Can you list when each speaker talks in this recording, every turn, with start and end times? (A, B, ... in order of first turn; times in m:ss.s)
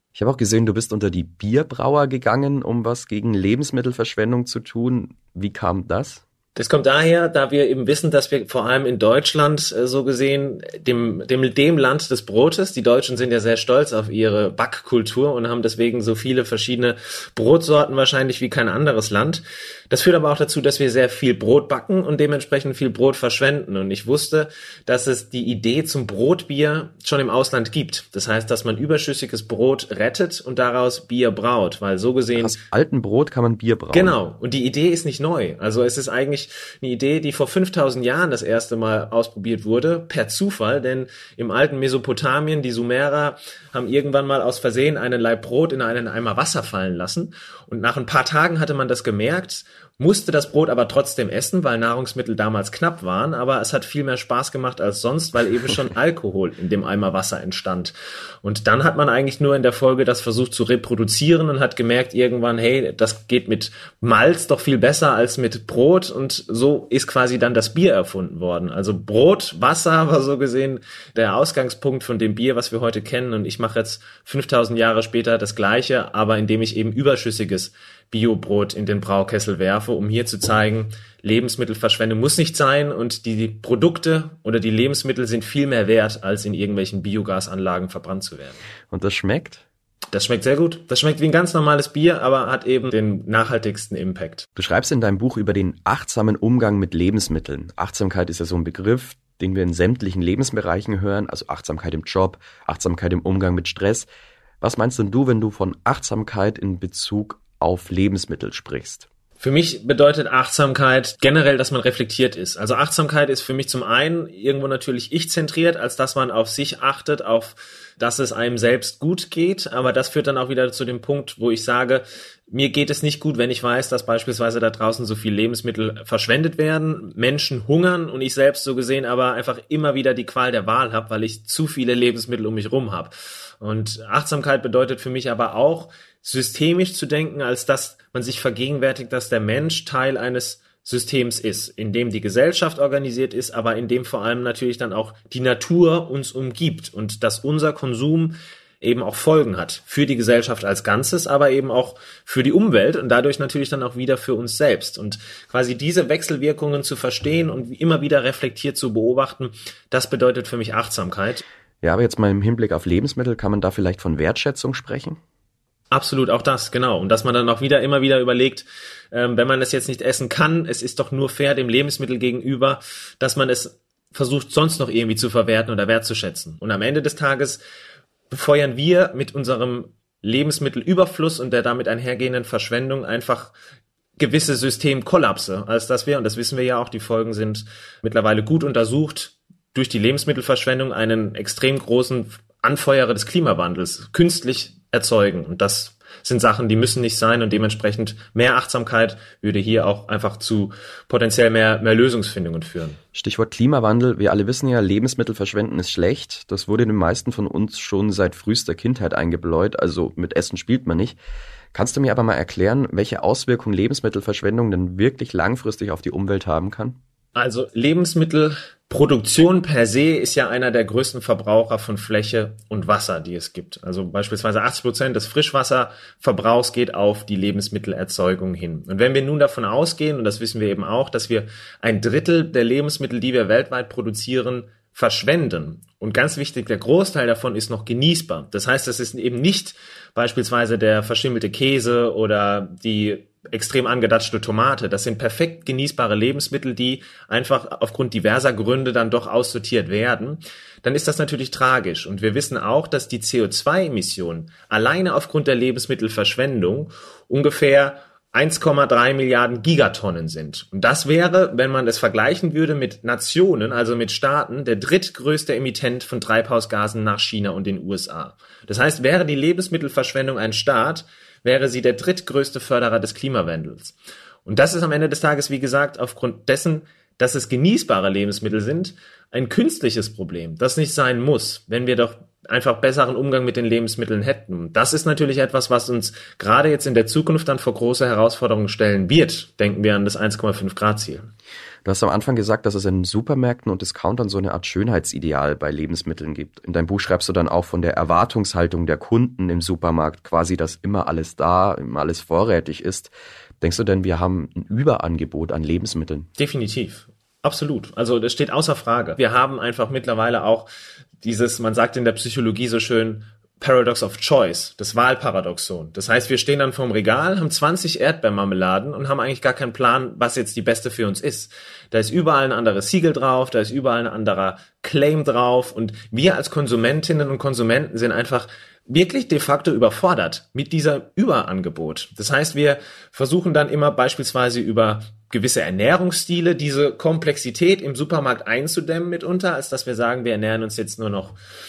0:00.1-0:06.2 A
0:06.6-0:32.6 B
0:32.4-0:34.2 A
0:33.9-0:57.9 B
0:58.4-1:28.6 B
1:28.9-1:29.6 A
1:30.1-1:34.4 B
1:34.6-1:44.1 A
1:44.6-1:49.1 A
1:49.4-2:41.4 B
2:41.8-2:45.2 A
2:45.9-2:57.6 B
2:58.3-3:03.5 B
3:04.2-3:23.0 B
3:23.1-3:31.2 A
3:31.7-3:37.0 A
3:37.4-4:33.9 B
4:34.4-4:51.3 B
4:51.8-5:06.3 A
5:06.4-5:10.7 B
5:11.2-5:41.4 B